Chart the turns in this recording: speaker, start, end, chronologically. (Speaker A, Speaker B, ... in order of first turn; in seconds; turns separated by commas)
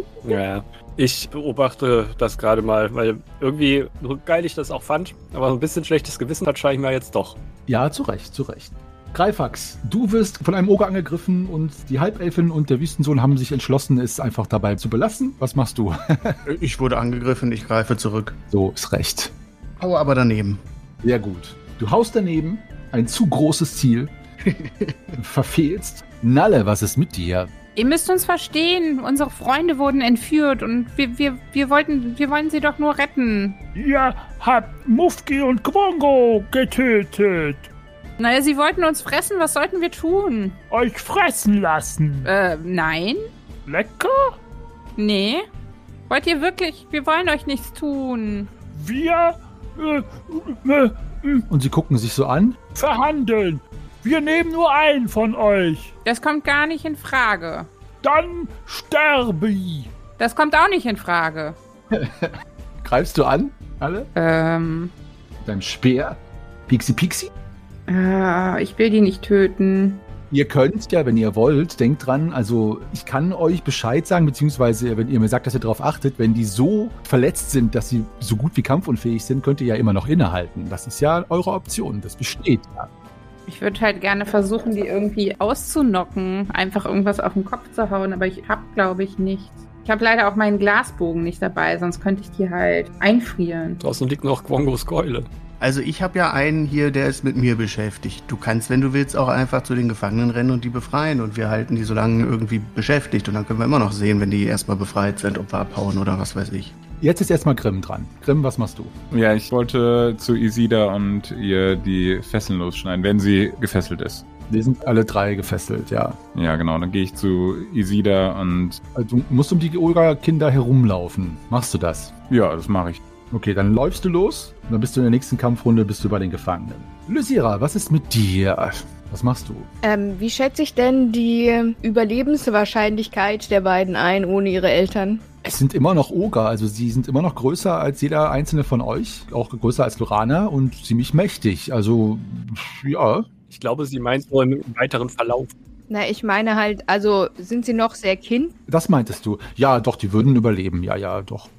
Speaker A: 0.2-7.4, Speaker B: 7.7-16.4, Speaker C: 16.5-18.4, Speaker B: 18.5-19.3, Speaker C: 19.8-20.6, Speaker B: 21.0-24.1, Speaker C: 24.5-25.1, Speaker B: 25.2-27.5, Speaker D: 27.8-33.6, Speaker E: 33.8-37.7, Speaker D: 38.2-40.6, Speaker E: 40.7-42.3, Speaker D: 42.2-43.3, Speaker E: 43.7-44.4, Speaker D: 45.0-45.5, Speaker D: 46.1-48.5, Speaker E: 48.6-51.5, Speaker B: 51.5-52.6, Speaker E: 52.8-55.9, Speaker D: 56.0-57.7, Speaker E: 58.0-59.9, Speaker D: 60.2-61.6, Speaker B: 61.9-64.1, Speaker D: 64.2-64.9, Speaker B: 65.4-67.3, Speaker D: 67.9-70.0, Speaker B: 70.3-82.9, Speaker D: 83.5-93.8, Speaker A: 93.8-95.3, Speaker C: 95.6-106.8, Speaker B: 107.0-109.0, Speaker F: 109.1-114.3, Speaker B: 114.5-116.2, Speaker F: 116.3-118.8, Speaker B: 119.0-122.2, Speaker F: 122.3-123.0, Speaker B: 123.3-129.7, Speaker G: 129.8-135.2, Speaker B: 135.4-143.3, Speaker A: 143.5-145.5, Speaker G: 145.9-148.5, Speaker B: 148.7-151.5